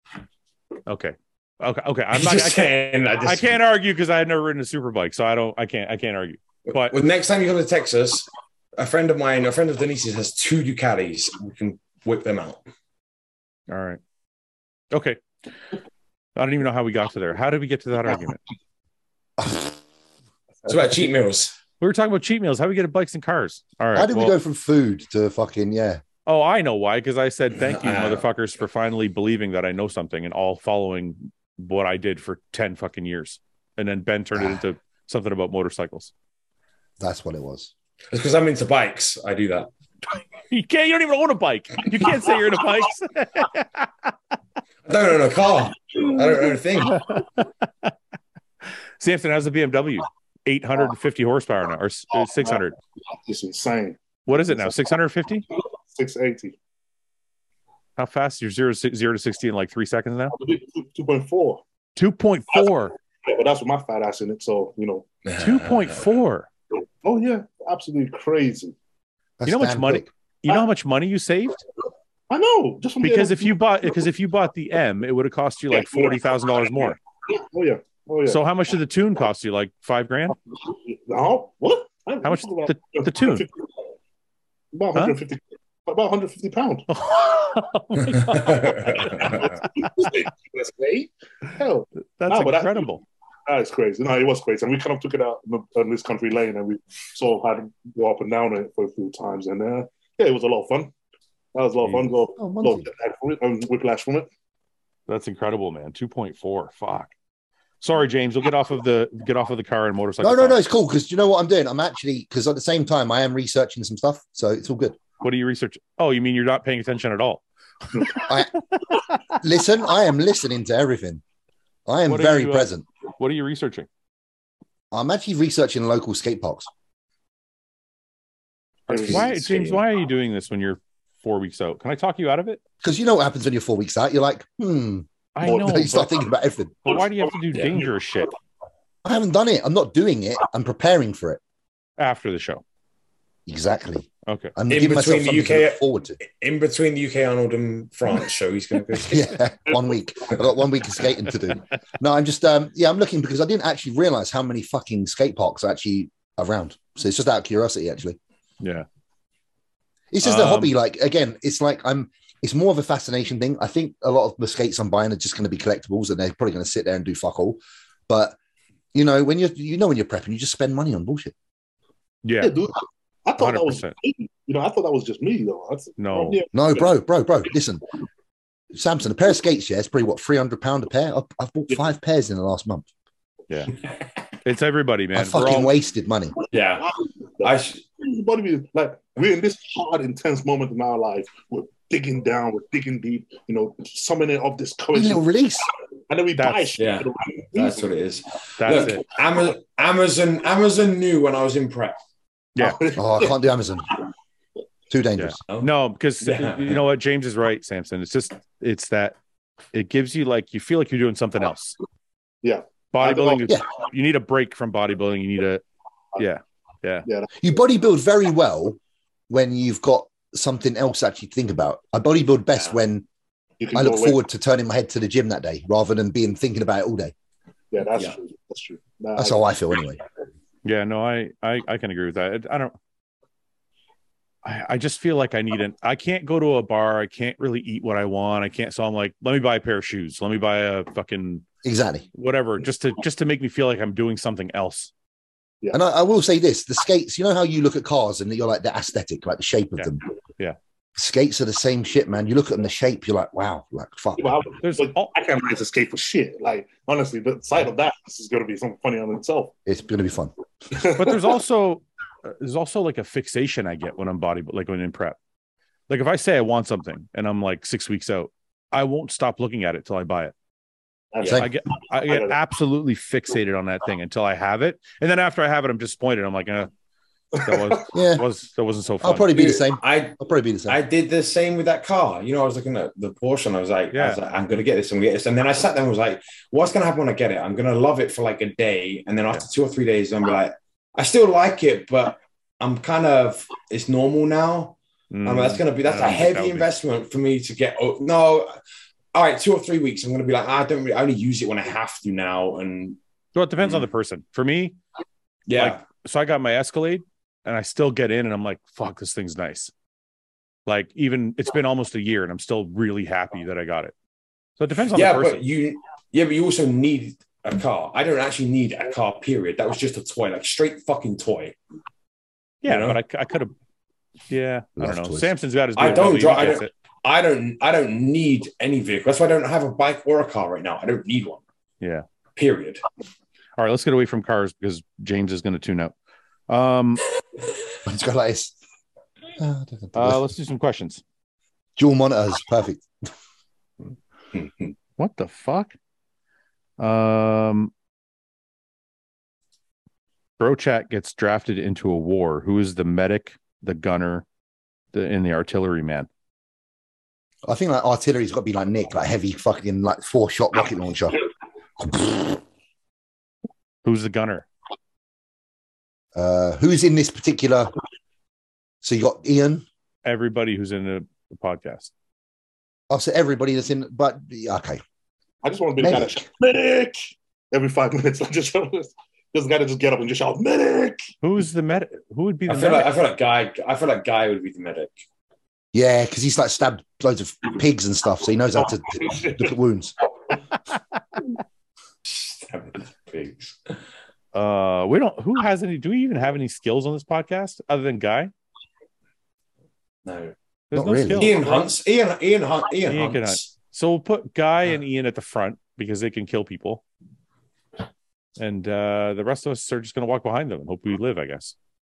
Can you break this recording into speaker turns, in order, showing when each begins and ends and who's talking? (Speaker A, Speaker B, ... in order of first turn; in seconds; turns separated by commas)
Speaker A: 0.9-7.0, Speaker B: 2.1-3.5, Speaker B: 6.7-12.6, Speaker A: 13.7-14.0, Speaker A: 14.9-15.2, Speaker A: 16.4-18.4, Speaker C: 19.4-19.7, Speaker B: 20.6-21.6, Speaker A: 21.8-24.3, Speaker C: 23.9-26.0, Speaker A: 26.2-36.1, Speaker B: 27.6-28.2, Speaker C: 37.0-37.7, Speaker B: 38.1-39.7, Speaker A: 40.5-44.1, Speaker B: 44.9-47.1, Speaker A: 46.9-47.9, Speaker A: 49.0-52.8, Speaker D: 53.2-54.8, Speaker A: 54.3-55.5, Speaker D: 55.9-56.5, Speaker A: 58.0-60.4, Speaker D: 60.3-61.6, Speaker A: 62.0-62.9, Speaker D: 63.2-65.1, Speaker B: 65.2-65.9, Speaker A: 65.3-66.5, Speaker D: 67.0-68.7, Speaker C: 69.4-70.1, Speaker A: 69.5-71.6, Speaker D: 72.3-73.5, Speaker A: 73.0-77.0, Speaker D: 75.7-78.4, Speaker A: 78.3-80.3, Speaker D: 80.6-83.5, Speaker A: 82.2-83.5, Speaker D: 84.7-86.9, Speaker A: 86.9-89.9, Speaker B: 88.4-89.4, Speaker D: 89.0-92.9, Speaker A: 92.2-93.0, Speaker D: 93.5-100.9, Speaker D: 101.5-104.3, Speaker C: 102.4-102.9, Speaker A: 105.1-107.1, Speaker A: 107.8-110.6, Speaker C: 110.2-115.0, Speaker A: 115.2-117.4, Speaker C: 118.1-118.6, Speaker C: 119.3-121.2, Speaker C: 121.8-122.8, Speaker A: 122.1-123.9, Speaker C: 124.9-126.7, Speaker B: 128.9-129.8, Speaker D: 128.9-129.3, Speaker A: 128.9-132.6, Speaker C: 132.8-136.8, Speaker A: 135.3-136.1, Speaker D: 135.4-135.9, Speaker A: 136.8-138.3, Speaker C: 139.0-141.4, Speaker A: 142.0-142.6, Speaker C: 143.5-146.2, Speaker A: 144.3-144.5, Speaker B: 144.7-149.3, Speaker C: 149.0-158.2, Speaker A: 158.6-158.8, Speaker C: 160.1-167.6, Speaker A: 160.2-160.7, Speaker C: 168.1-168.4, Speaker C: 168.9-171.3, Speaker A: 172.2-172.6, Speaker D: 172.4-176.9, Speaker A: 173.4-173.9, Speaker A: 176.0-176.4, Speaker C: 176.5-177.8, Speaker C: 178.7-182.9, Speaker A: 184.4-185.7, Speaker C: 185.1-186.3, Speaker B: 186.5-186.9, Speaker D: 187.4-195.2, Speaker B: 187.4-187.8, Speaker C: 194.9-195.7, Speaker D: 196.1-197.9, Speaker A: 196.3-196.8, Speaker B: 196.8-202.0, Speaker A: 198.6-199.0, Speaker A: 202.5-202.8, Speaker D: 202.6-203.4, Speaker C: 202.9-203.9, Speaker C: 204.9-205.4, Speaker A: 205.2-209.2, Speaker B: 206.2-206.8, Speaker A: 209.7-211.8, Speaker D: 212.4-213.5, Speaker A: 212.9-215.6, Speaker A: 216.2-217.1, Speaker C: 217.4-218.8, Speaker C: 219.3-223.1, Speaker D: 223.6-224.2, Speaker C: 223.7-227.1, Speaker D: 227.7-229.6, Speaker C: 229.2-230.0, Speaker A: 230.6-232.7, Speaker A: 234.4-241.4, Speaker C: 241.6-242.1, Speaker A: 242.1-244.9, Speaker C: 245.7-250.0, Speaker A: 249.8-250.6, Speaker C: 250.9-254.3, Speaker D: 254.2-259.5, Speaker A: 254.6-255.1, Speaker C: 259.6-260.3, Speaker D: 260.7-261.2, Speaker A: 260.8-265.2, Speaker A: 265.9-270.3, Speaker D: 271.1-271.5, Speaker C: 271.2-271.5, Speaker A: 271.4-276.7, Speaker D: 272.1-272.3, Speaker D: 277.4-277.8, Speaker A: 277.4-279.4, Speaker C: 277.9-278.2, Speaker C: 279.0-280.8, Speaker B: 279.3-298.6, Speaker A: 283.9-284.2, Speaker A: 295.1-296.7, Speaker B: 299.1-303.0, Speaker A: 303.3-304.8, Speaker B: 303.6-303.9, Speaker B: 305.5-305.8, Speaker A: 305.6-309.7, Speaker A: 310.6-313.9, Speaker A: 314.6-315.4, Speaker B: 314.9-321.6, Speaker A: 322.6-323.5, Speaker B: 322.6-323.0, Speaker A: 324.3-326.7, Speaker C: 324.8-325.3, Speaker B: 325.8-331.4, Speaker A: 331.8-332.0, Speaker B: 332.4-332.8, Speaker A: 333.6-335.9, Speaker A: 336.5-337.0, Speaker C: 337.8-338.5, Speaker C: 339.4-340.2, Speaker A: 339.9-341.0, Speaker C: 341.8-342.9, Speaker A: 345.0-345.7, Speaker A: 346.8-347.7, Speaker A: 350.4-354.2, Speaker A: 354.9-356.1, Speaker C: 357.4-361.2, Speaker C: 361.8-362.4, Speaker A: 363.8-364.5, Speaker C: 366.1-367.7, Speaker C: 368.8-369.6, Speaker A: 370.0-371.9, Speaker C: 372.9-374.8, Speaker D: 375.4-381.0, Speaker C: 375.8-376.2, Speaker A: 381.2-382.9, Speaker B: 382.5-384.9, Speaker C: 385.7-389.9, Speaker B: 392.0-393.8, Speaker A: 394.3-398.3, Speaker B: 400.0-400.3, Speaker A: 400.7-401.7, Speaker C: 400.7-401.3, Speaker B: 401.1-403.5, Speaker A: 402.9-406.8, Speaker A: 408.4-411.5